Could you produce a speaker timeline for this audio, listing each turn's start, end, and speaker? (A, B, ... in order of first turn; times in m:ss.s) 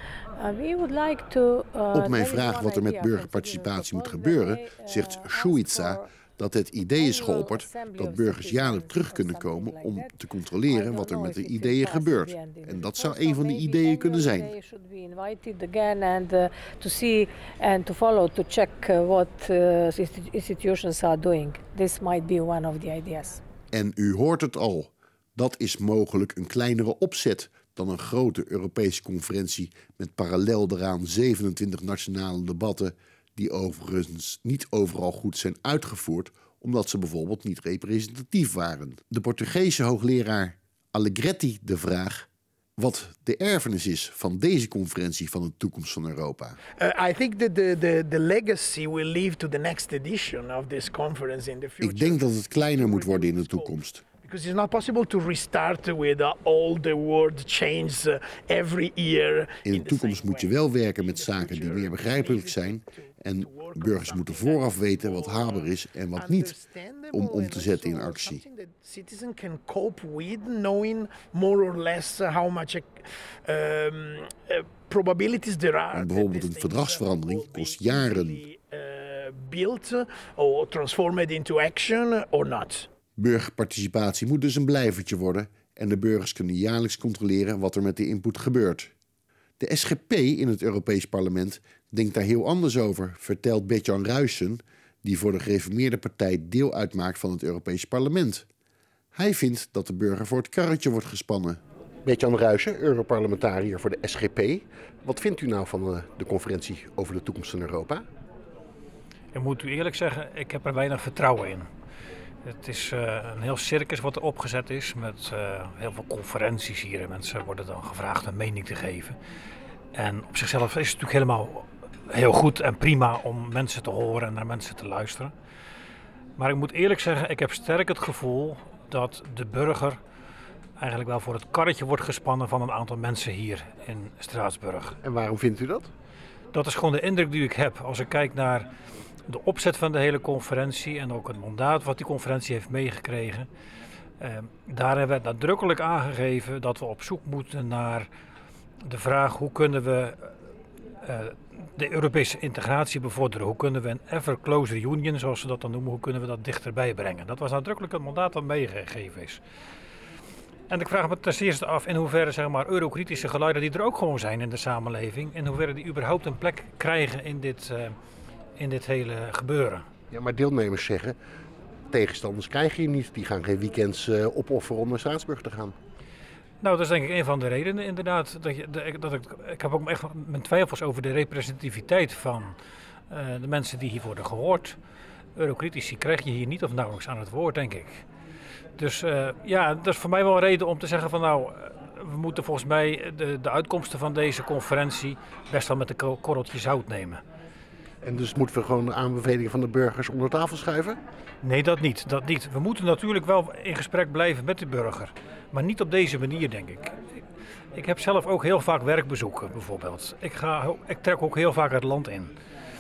0:00.4-0:06.1 A
0:01.9-0:14.5 B
0:07.0-0:10.1 A
0:10.7-0:23.4 A
0:23.7-0:46.6 B
0:46.8-1:22.9 C
0:51.8-0:54.0 B
0:59.6-1:06.5 B
1:07.1-1:08.4 B
1:15.9-1:18.4 B
1:23.2-1:28.9 B
1:29.6-1:38.5 B
1:39.2-1:41.6 B
1:42.1-1:44.0 D
1:44.0-1:44.6 B
1:44.6-1:48.0 D
1:49.3-1:51.7 E
1:52.4-1:59.2 E
1:59.9-2:05.3 E
2:06.4-2:10.0 E
2:10.8-2:15.0 E
2:15.0-2:15.9 D
2:16.5-2:18.7 E
2:19.3-2:23.5 E
2:24.2-2:28.1 E
2:28.8-2:30.3 E
2:31.0-2:39.4 E
2:40.7-2:48.0 E
2:48.6-2:49.8 E
2:50.1-2:51.1 D
2:51.9-2:55.7 D
2:56.6-3:02.6 E
3:03.1-3:04.8 E
3:05.4-3:08.0 E
3:08.8-3:17.2 E
3:18.0-3:21.0 D
3:21.4-3:27.0 E
3:27.8-3:32.3 E